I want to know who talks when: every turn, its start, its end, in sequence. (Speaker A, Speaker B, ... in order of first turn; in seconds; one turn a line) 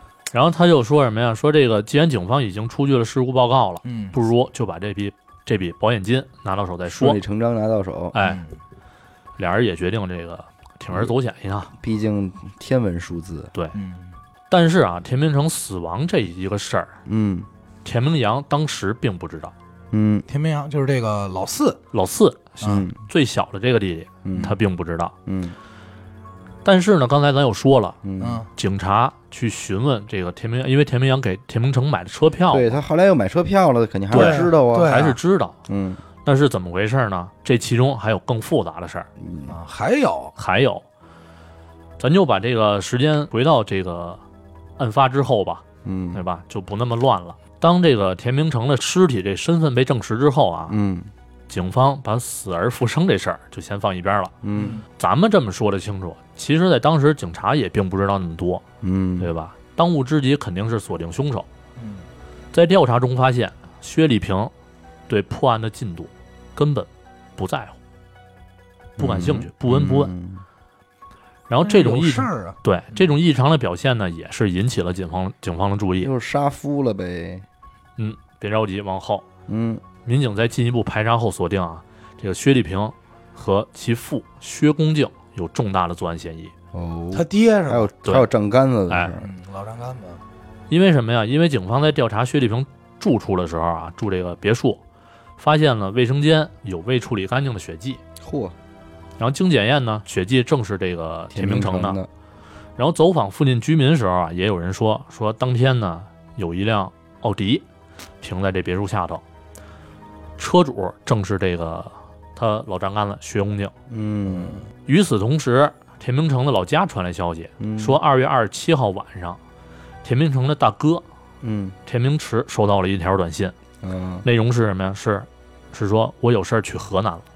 Speaker A: 0.3-7.2
Speaker B: 3.8-4.1
Speaker C: 6.9-8.1
Speaker A: 8.1-8.4
Speaker B: 8.2-8.5
Speaker A: 9.4-11.7
Speaker C: 11.8-13.5
Speaker B: 13.7-14.1
Speaker A: 14.5-17.0
Speaker C: 17.1-17.5
Speaker A: 17.8-19.5
Speaker C: 19.9-20.2
Speaker B: 20.3-21.8
Speaker A: 21.9-25.1
Speaker B: 22.6-22.9
Speaker C: 22.6-23.0
Speaker C: 24.2-24.6
Speaker C: 25.2-25.6
Speaker A: 26.6-28.0
Speaker C: 28.0-28.4
Speaker B: 28.2-28.5
Speaker A: 28.5-32.8
Speaker C: 32.5-35.0
Speaker A: 34.1-35.6
Speaker B: 34.1-35.2
Speaker C: 35.7-36.0
Speaker A: 36.2-39.1
Speaker C: 39.2-39.6
Speaker B: 39.5-40.3
Speaker A: 40.4-40.8
Speaker A: 42.0-44.2
Speaker A: 44.8-50.8
Speaker C: 45.8-46.2
Speaker C: 50.7-51.1
Speaker A: 51.5-54.3
Speaker C: 54.4-54.8
Speaker B: 54.5-54.8
Speaker A: 55.0-58.6
Speaker C: 58.8-59.3
Speaker A: 59.2-61.5
Speaker B: 61.8-62.0
Speaker A: 62.5-64.5
Speaker A: 65.1-67.8
Speaker A: 69.0-70.1
Speaker C: 69.0-70.4
Speaker A: 71.5-76.1
Speaker B: 71.6-72.5
Speaker C: 76.0-77.4
Speaker A: 78.0-79.3
Speaker C: 79.5-79.8
Speaker A: 80.0-86.5
Speaker C: 86.7-89.3
Speaker B: 87.1-87.9
Speaker B: 89.2-90.2
Speaker A: 90.7-94.8
Speaker A: 95.4-98.0
Speaker C: 98.2-98.5
Speaker A: 99.2-102.0
Speaker C: 101.3-102.1
Speaker A: 102.8-107.6
Speaker A: 108.2-109.2
Speaker A: 110.4-113.7
Speaker C: 113.9-114.6
Speaker A: 114.8-119.4
Speaker C: 117.6-118.0
Speaker A: 120.0-121.0
Speaker C: 121.4-121.8
Speaker A: 121.8-123.5
Speaker C: 123.8-124.2
Speaker A: 124.2-127.2